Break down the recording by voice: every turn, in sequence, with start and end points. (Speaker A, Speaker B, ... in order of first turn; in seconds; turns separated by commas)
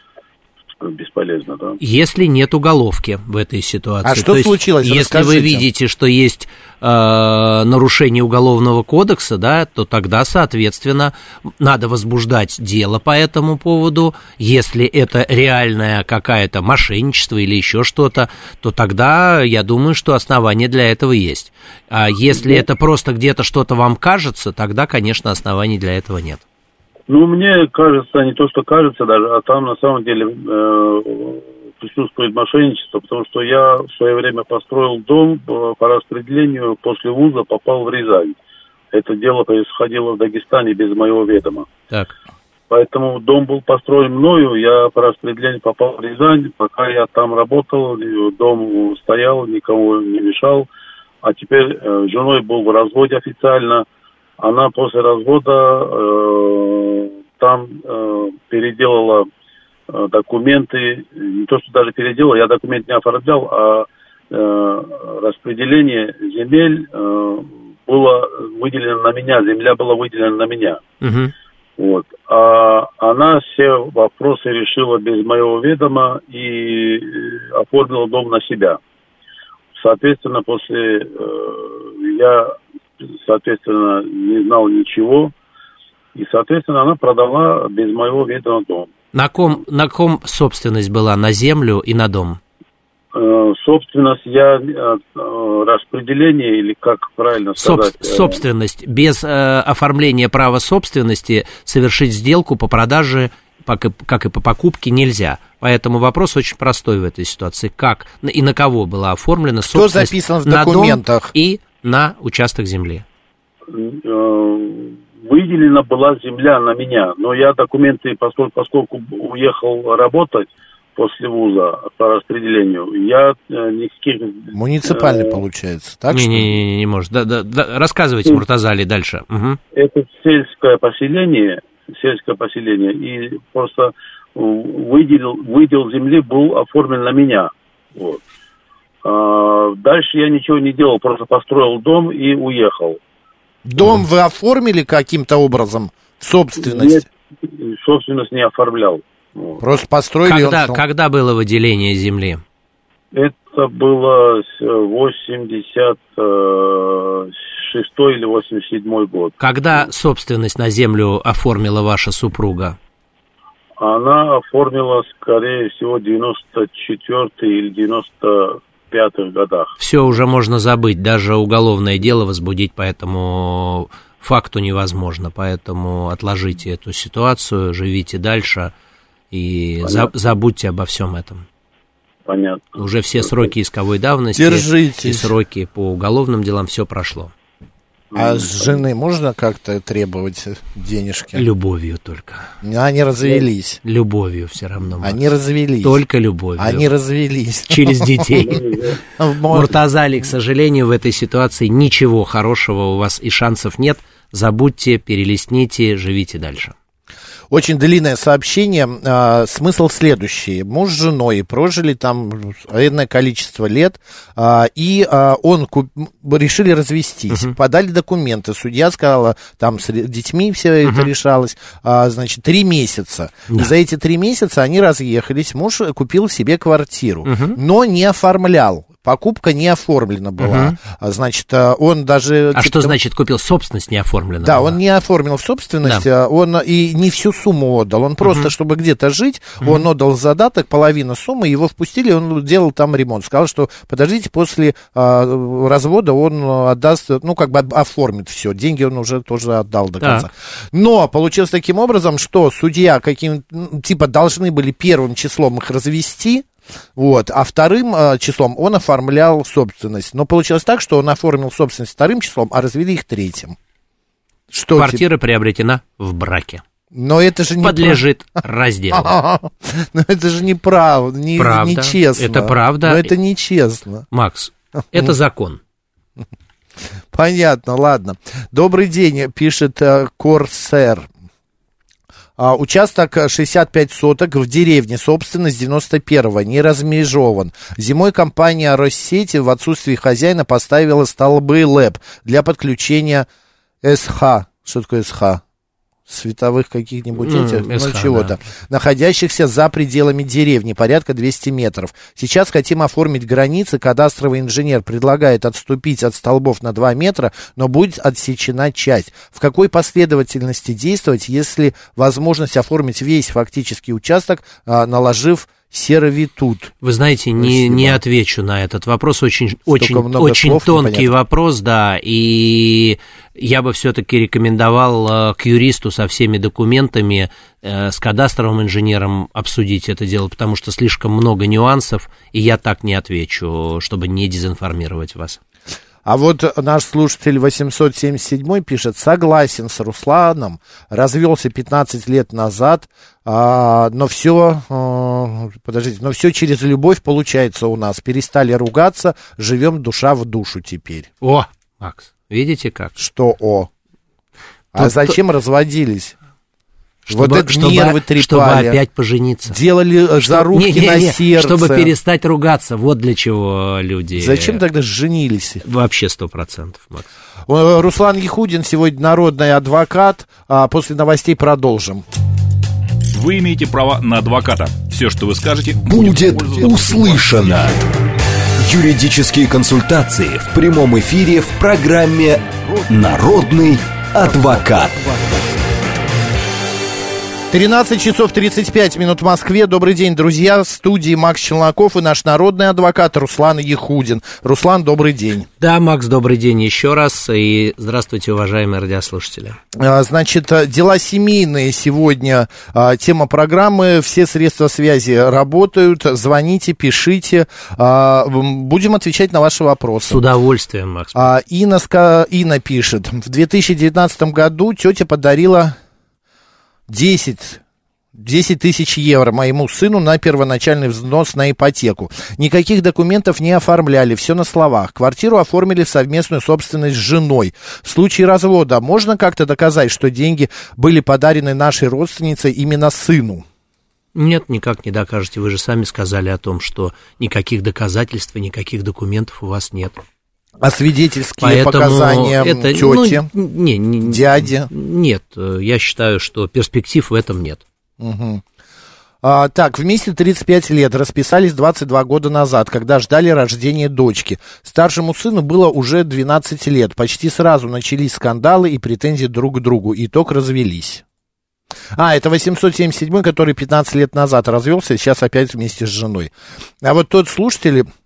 Speaker A: 0.8-1.8, Speaker B: 1.8-26.4, Speaker C: 4.0-5.7, Speaker A: 22.4-22.6, Speaker A: 27.1-38.4, Speaker A: 38.9-41.7, Speaker A: 42.7-50.7, Speaker A: 51.2-53.9, Speaker A: 54.4-59.3, Speaker A: 59.9-70.8, Speaker B: 71.0-71.3, Speaker A: 71.8-78.8, Speaker A: 79.8-82.5, Speaker A: 83.1-85.3, Speaker A: 86.2-88.9, Speaker B: 89.1-92.4, Speaker A: 93.1-98.4, Speaker B: 97.6-113.0, Speaker C: 109.7-111.3, Speaker A: 113.7-125.4, Speaker C: 124.5-126.5, Speaker B: 126.1-129.6, Speaker A: 129.7-138.2, Speaker A: 139.0-143.0, Speaker C: 143.7-147.0, Speaker A: 146.6-149.6, Speaker C: 149.6-150.8, Speaker B: 150.2-152.4, Speaker A: 153.1-159.3, Speaker B: 159.4-162.8, Speaker A: 163.8-169.8, Speaker B: 169.8-178.7, Speaker B: 179.3-181.4, Speaker A: 179.8-180.1, Speaker A: 182.3-183.5, Speaker B: 182.8-187.3, Speaker C: 184.3-185.3, Speaker A: 188.1-188.8, Speaker C: 188.2-191.4, Speaker B: 191.3-192.5, Speaker C: 192.6-193.8, Speaker B: 193.8-195.2, Speaker C: 195.0-196.0, Speaker B: 195.8-196.9, Speaker C: 196.6-198.3, Speaker B: 197.7-198.6, Speaker A: 198.4-199.0, Speaker C: 199.2-199.8, Speaker B: 199.5-206.8, Speaker C: 207.5-233.0, Speaker B: 220.8-221.1, Speaker B: 227.2-227.6, Speaker B: 230.4-230.8, Speaker B: 232.6-234.8, Speaker C: 234.4-263.6, Speaker B: 238.2-238.5, Speaker B: 239.6-239.9, Speaker B: 250.0-250.3, Speaker C: 264.5-265.0, Speaker B: 264.8-266.6, Speaker C: 266.9-268.0, Speaker B: 267.6-269.1, Speaker C: 268.9-274.1, Speaker B: 271.4-273.1, Speaker B: 274.1-275.6, Speaker C: 277.1-281.1, Speaker C: 282.4-293.3, Speaker C: 293.8-295.4, Speaker C: 296.1-316.7, Speaker B: 297.2-298.4, Speaker B: 316.8-335.4, Speaker C: 317.4-318.0, Speaker C: 319.8-321.1, Speaker C: 336.1-351.1, Speaker B: 351.2-352.9, Speaker C: 353.0-353.7, Speaker C: 354.7-356.1, Speaker B: 354.8-355.2, Speaker B: 357.1-359.6, Speaker C: 357.1-358.8, Speaker C: 359.5-361.9, Speaker B: 360.2-364.6, Speaker C: 364.2-365.6, Speaker B: 365.6-367.1, Speaker C: 367.5-372.1, Speaker D: 373.1-377.6, Speaker E: 375.9-377.8, Speaker E: 378.6-385.2, Speaker C: 387.5-395.5, Speaker B: 395.6-399.6, Speaker C: 399.8-410.2, Speaker B: 410.1-411.3, Speaker C: 411.1-415.8, Speaker C: 416.9-417.6, Speaker C: 418.1-433.4, Speaker B: 434.1-440.0, Speaker C: 440.6-443.3, Speaker B: 441.4-447.6, Speaker C: 444.0-444.7, Speaker C: 448.0-448.4, Speaker C: 449.2-461.0, Speaker C: 462.0-466.3, Speaker C: 466.8-467.9